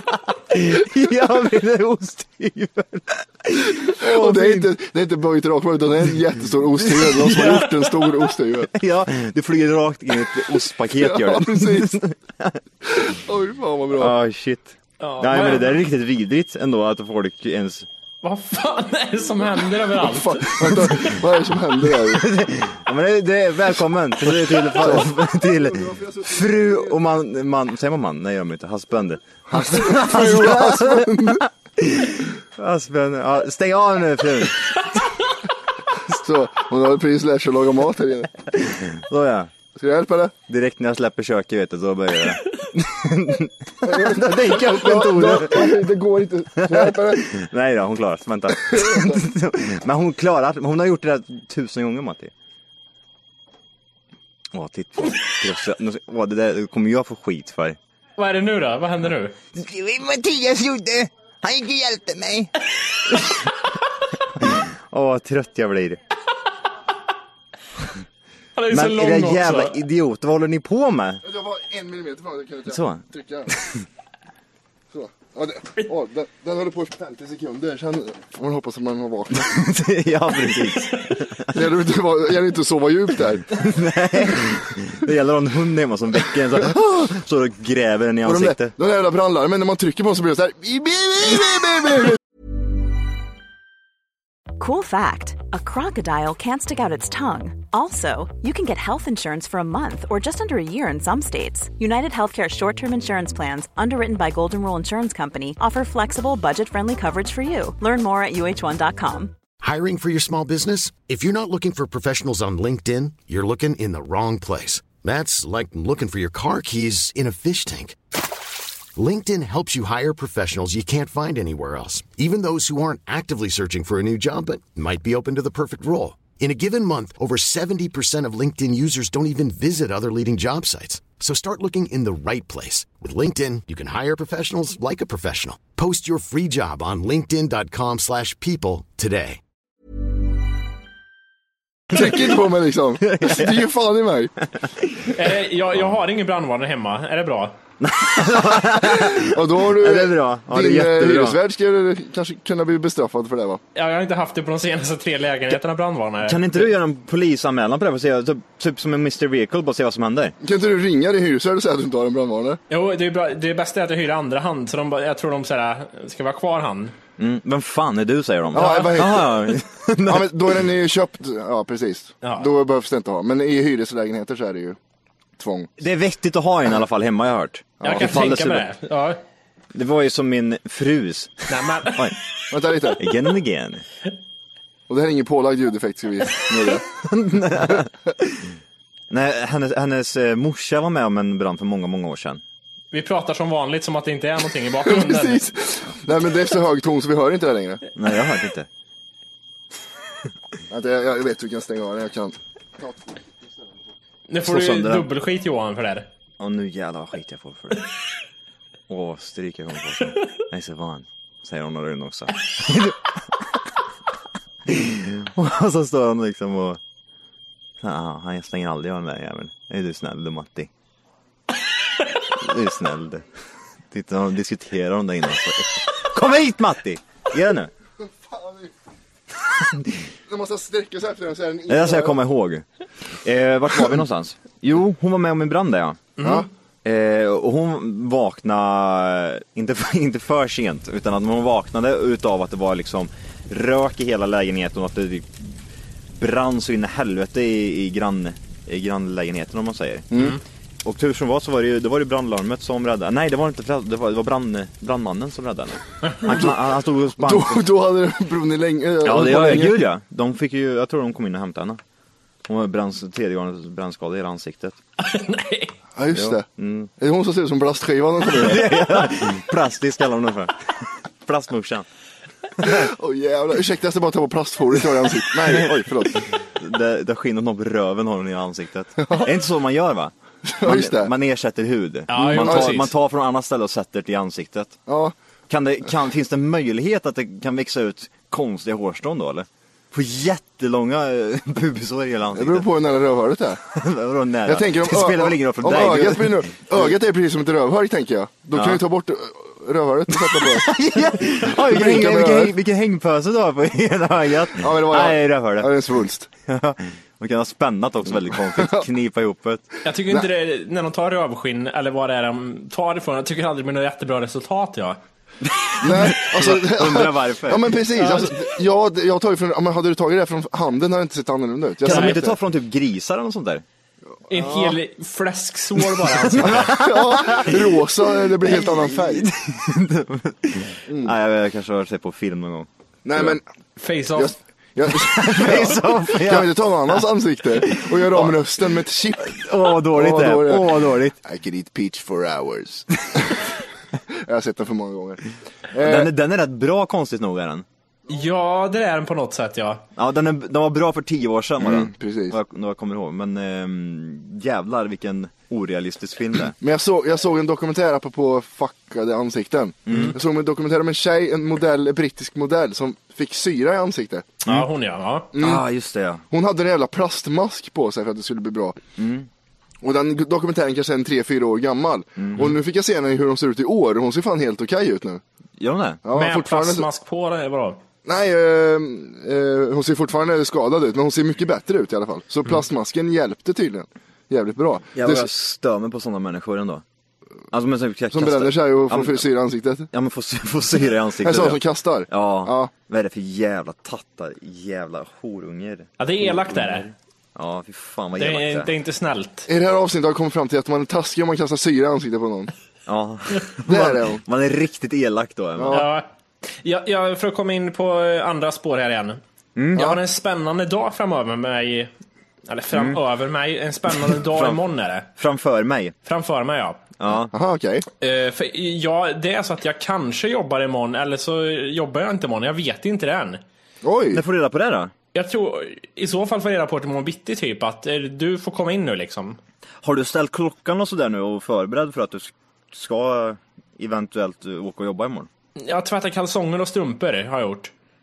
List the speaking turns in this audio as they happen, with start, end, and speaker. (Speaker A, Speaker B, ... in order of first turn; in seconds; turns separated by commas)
Speaker A: 0.5-4.7, Speaker B: 3.8-8.7, Speaker A: 6.8-12.6, Speaker B: 11.0-12.0, Speaker B: 12.8-14.1, Speaker A: 14.0-17.9, Speaker C: 15.0-15.8, Speaker C: 18.2-20.6, Speaker B: 19.9-22.2, Speaker A: 22.1-35.0, Speaker B: 24.8-27.0, Speaker B: 29.5-31.4, Speaker B: 36.1-38.3, Speaker A: 38.9-39.5, Speaker B: 39.8-40.3, Speaker A: 40.5-45.9, Speaker B: 43.8-47.3, Speaker A: 46.6-52.3, Speaker B: 48.7-49.2, Speaker A: 54.5-57.8, Speaker C: 58.2-59.3, Speaker A: 59.5-62.5, Speaker A: 63.1-63.4, Speaker A: 64.4-66.0, Speaker C: 68.5-69.8, Speaker A: 68.7-71.2, Speaker B: 71.2-73.5, Speaker A: 72.7-73.8, Speaker B: 74.9-79.5, Speaker A: 79.4-81.6, Speaker B: 81.5-83.5, Speaker A: 83.5-88.7, Speaker B: 88.2-92.2, Speaker D: 94.6-109.3, Speaker E: 109.6-118.0, Speaker E: 118.9-139.4, Speaker B: 141.9-144.3, Speaker A: 143.1-143.7, Speaker C: 145.1-147.5, Speaker A: 147.8-151.4, Speaker B: 148.8-153.6, Speaker C: 153.7-156.7, Speaker A: 156.2-160.3, Speaker B: 160.4-162.6, Speaker C: 162.7-166.9, Speaker A: 167.2-170.5, Speaker B: 168.5-169.4, Speaker C: 168.6-168.9, Speaker B: 170.0-174.8, Speaker C: 172.2-172.5, Speaker B: 175.4-175.7, Speaker A: 175.8-178.7, Speaker B: 177.8-178.2, Speaker C: 177.8-179.2, Speaker A: 179.7-182.2, Speaker C: 181.5-182.1, Speaker B: 182.5-183.0, Speaker A: 183.0-183.8, Speaker B: 184.9-186.8, Speaker A: 187.0-188.3, Speaker A: 189.1-192.4, Speaker C: 192.9-195.4, Speaker B: 194.8-197.8, Speaker A: 197.9-198.7, Speaker B: 200.7-203.2, Speaker C: 204.3-206.1, Speaker A: 204.4-205.1, Speaker A: 206.4-207.9, Speaker A: 208.9-213.2, Speaker A: 214.7-216.8, Speaker A: 217.8-220.7, Speaker A: 222.3-223.2, Speaker A: 223.9-227.7, Speaker B: 228.0-228.7, Speaker B: 230.3-232.2, Speaker A: 231.7-232.6, Speaker A: 233.2-236.2, Speaker C: 236.2-236.4, Speaker A: 236.8-245.6, Speaker A: 246.2-250.1, Speaker B: 250.1-250.4, Speaker A: 250.8-257.6, Speaker B: 256.2-256.6, Speaker B: 257.2-259.8, Speaker A: 259.0-261.8, Speaker A: 262.5-264.8, Speaker C: 265.0-265.7, Speaker B: 265.9-266.4, Speaker A: 266.1-266.9, Speaker B: 267.0-268.7, Speaker A: 268.3-271.8, Speaker B: 272.6-276.2, Speaker A: 275.5-275.7, Speaker A: 276.6-280.1, Speaker B: 280.5-281.1, Speaker A: 280.6-284.8, Speaker C: 282.1-282.9, Speaker B: 282.2-282.7, Speaker B: 284.9-285.1, Speaker A: 285.5-292.7, Speaker B: 292.3-293.6, Speaker A: 293.7-296.9, Speaker B: 294.4-300.7, Speaker A: 298.5-298.8, Speaker A: 300.3-305.7, Speaker B: 301.3-302.5, Speaker B: 304.6-306.3, Speaker A: 306.5-309.6, Speaker C: 309.8-315.0, Speaker A: 315.6-317.8, Speaker B: 315.8-322.4, Speaker C: 318.0-318.3, Speaker A: 321.8-323.6, Speaker C: 321.9-322.2, Speaker C: 324.3-326.7, Speaker B: 324.3-324.8, Speaker A: 326.2-327.8, Speaker B: 326.4-329.3, Speaker A: 328.4-333.4, Speaker B: 330.9-331.1, Speaker B: 333.1-333.4, Speaker C: 333.8-334.3, Speaker B: 334.1-343.4, Speaker A: 334.9-337.0, Speaker A: 337.6-338.4, Speaker A: 339.2-341.2, Speaker B: 344.2-346.1, Speaker A: 345.8-347.6, Speaker C: 348.1-349.8, Speaker A: 349.9-356.6, Speaker B: 351.6-352.3, Speaker B: 356.6-364.3, Speaker A: 359.9-360.1, Speaker C: 359.9-360.1, Speaker C: 364.4-365.3, Speaker B: 365.3-365.6, Speaker A: 365.4-366.2, Speaker B: 366.3-368.8, Speaker A: 369.0-369.3, Speaker B: 369.8-375.2, Speaker A: 372.2-372.6, Speaker A: 375.6-376.0, Speaker B: 376.0-376.9, Speaker C: 376.1-377.8, Speaker B: 378.0-385.3, Speaker A: 384.9-386.8, Speaker A: 387.5-389.2, Speaker B: 388.1-389.9, Speaker A: 389.9-398.7, Speaker B: 391.2-392.7, Speaker C: 396.0-396.9, Speaker C: 398.2-399.5, Speaker B: 399.5-402.5, Speaker A: 402.9-405.8, Speaker B: 403.7-404.2, Speaker B: 405.6-405.9, Speaker C: 405.7-409.2, Speaker A: 409.6-409.9, Speaker C: 409.8-411.9, Speaker C: 412.5-415.1, Speaker A: 412.7-413.0, Speaker A: 414.1-414.6, Speaker A: 415.1-415.9, Speaker C: 416.0-416.8, Speaker A: 417.0-417.3, Speaker B: 417.3-417.8, Speaker C: 418.0-423.4, Speaker B: 423.8-424.2, Speaker A: 424.1-424.9, Speaker C: 425.1-429.4, Speaker A: 429.8-435.3, Speaker C: 435.6-437.7